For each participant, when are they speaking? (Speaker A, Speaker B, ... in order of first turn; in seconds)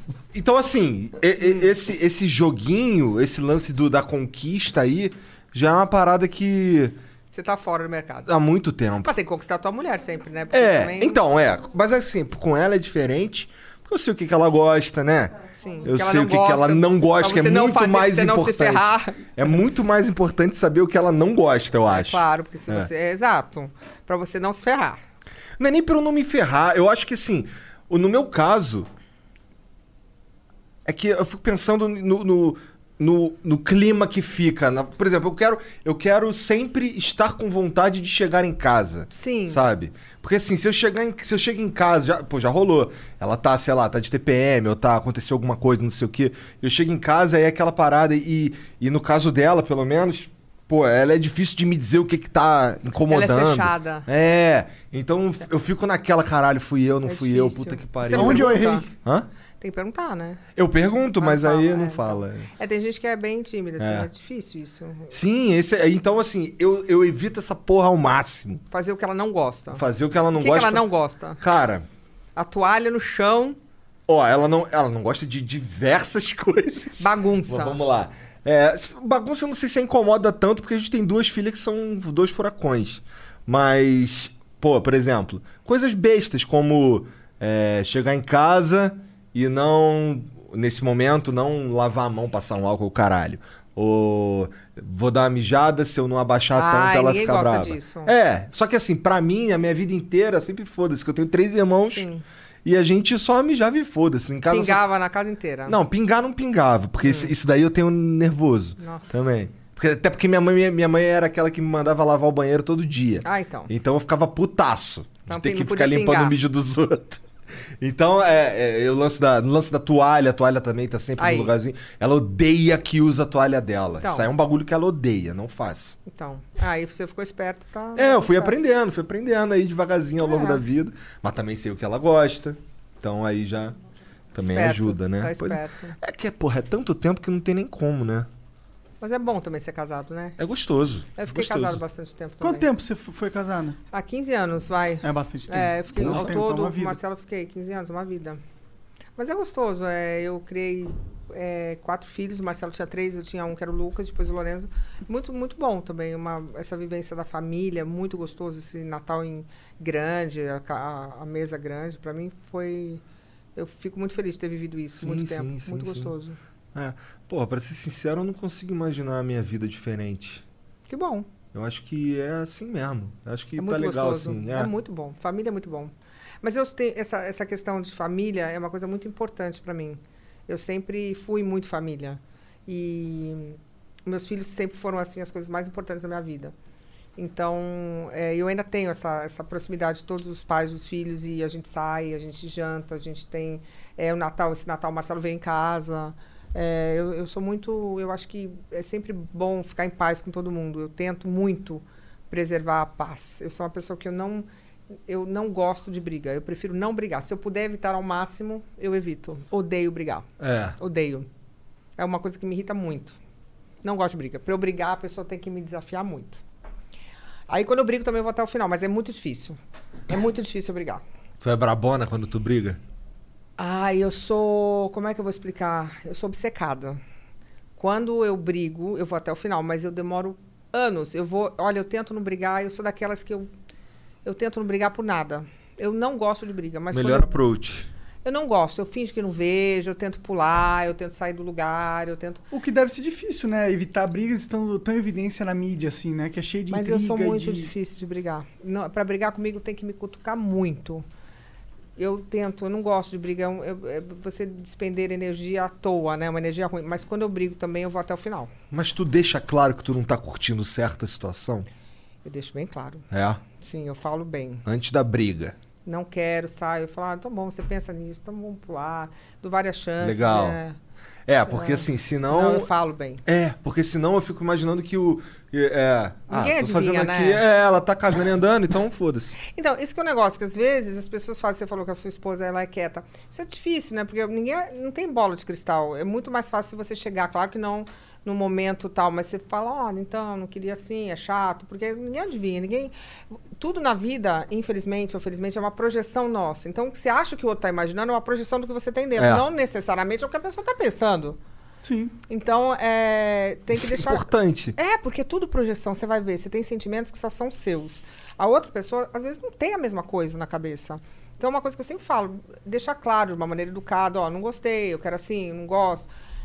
Speaker A: 0.3-7.0, 8.3-9.1, 10.5-22.9, 25.6-28.9, 30.9-59.3, 60.6-62.5, 63.8-64.1, 65.1-68.6, 69.7-70.9, 71.4-71.9, 74.1-102.1, 102.6-104.8, 105.7-117.2, 117.8-126.0, 128.0-133.8, 134.3-138.3, 140.4-141.8, 146.0-146.3, 165.0-166.1, 166.7-170.4, 171.5-174.7, 210.4-210.8, 221.4-222.8, 236.9-237.9, 258.7-261.7, 263.1-263.4, 264.7-265.6, 270.0-270.6, 271.3-272.7, 273.2-279.4, 299.2-299.4, 303.7-304.8
Speaker B: 7.3-8.3, 9.0-11.2, 15.6-19.2, 21.9-25.0, 39.1-39.6, 53.1-54.1, 57.0-58.9, 59.6-60.4, 61.2-65.1, 68.7-69.8, 70.4-71.4, 72.4-73.6, 77.0-77.8, 96.5-98.1, 101.8-102.2, 104.5-105.8, 107.0-107.3, 108.8-109.2, 113.2-113.7, 115.3-116.4, 121.2-121.5, 124.0-124.3, 126.1-128.6, 130.2-130.6, 134.4-136.0, 139.0-140.4, 141.2-142.7, 143.9-148.4, 149.2-163.0, 163.6-166.4, 170.9-171.3, 173.6-186.5, 187.2-204.5, 205.1-210.3, 210.8-211.3, 212.0-213.2, 213.8-216.4, 217.5-219.6, 220.1-221.0, 223.6-227.0, 227.8-233.5, 234.2-237.4, 238.2-242.4, 246.7-251.0, 252.0-258.5, 262.2-264.6, 265.9-270.8, 271.5-273.2, 276.3-277.4, 279.4-292.9, 293.5-301.4, 302.3-316.1
Speaker C: 58.1-58.9, 142.4-143.8, 145.0-147.0, 242.5-247.7, 301.8-302.1